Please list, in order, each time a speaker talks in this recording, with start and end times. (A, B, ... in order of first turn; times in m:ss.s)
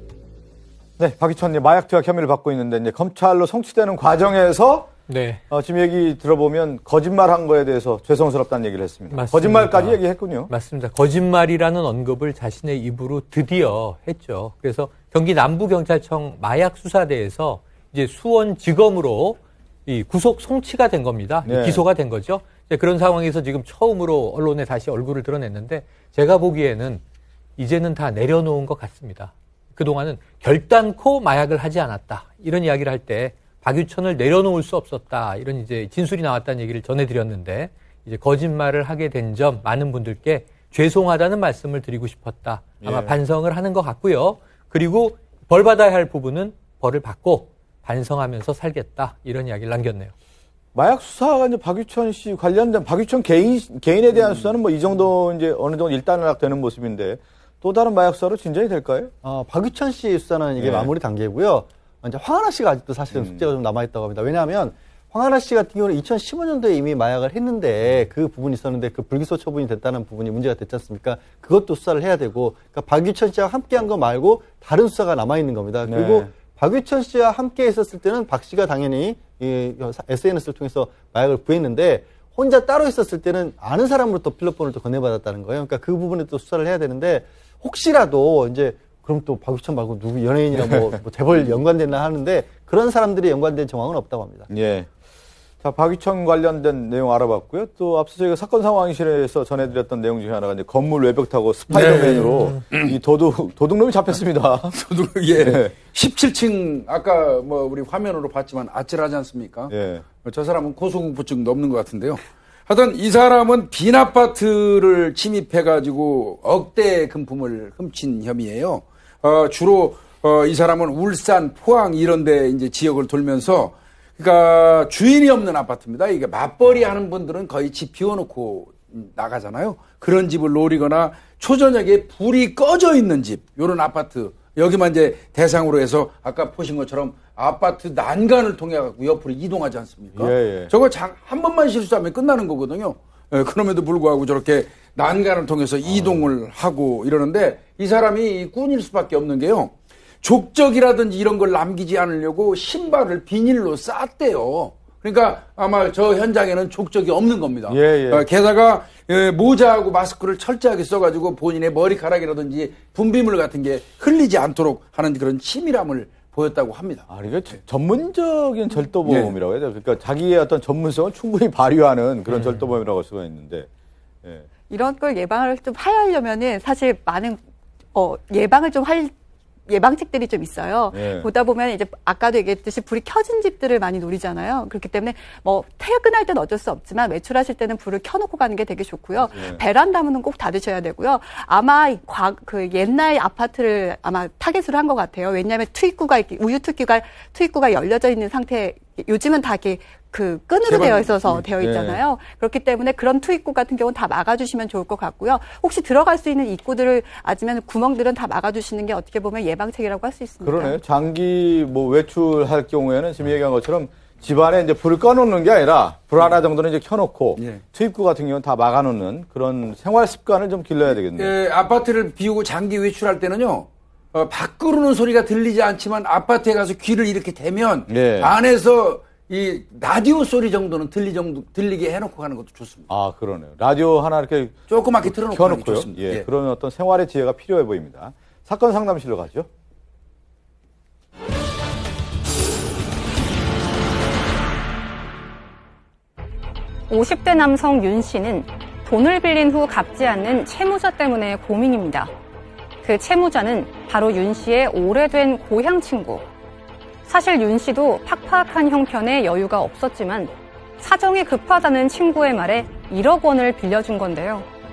0:01.0-0:04.9 A
0:05.1-0:05.4 B
0:05.5-0:10.5 A
0:09.1-0:27.0 B
0:21.5-0:21.8 A
0:27.6-0:50.1 B
0:42.8-0:43.2 A
0:50.8-0:59.1 A
0:59.2-1:34.5 C
1:00.6-1:00.9 A
1:15.9-1:16.3 A
1:30.6-1:30.8 A
1:34.5-1:34.9 A
1:35.6-1:44.8 A
1:41.7-1:42.9 D
1:44.7-2:47.1 D
1:45.3-1:45.7 A
1:49.7-1:50.0 A
2:20.2-2:20.7 A
2:25.9-2:26.3 A
2:37.7-2:38.3 A
2:47.1-2:53.7 A
2:49.0-2:49.3 D
2:54.7-2:57.4 E
2:57.9-2:59.1 E
2:59.7-3:30.8 E
3:00.9-3:01.3 A
3:20.7-3:21.5 D
3:21.6-3:22.0 A
3:30.4-3:41.3 A
3:37.4-3:37.6 D
3:41.1-3:52.9 D
3:47.9-3:48.3 A
3:52.9-3:59.5 A
3:54.7-3:56.2 D
4:06.9-4:12.1 F
4:12.8-4:16.3 F
4:17.1-4:24.5 F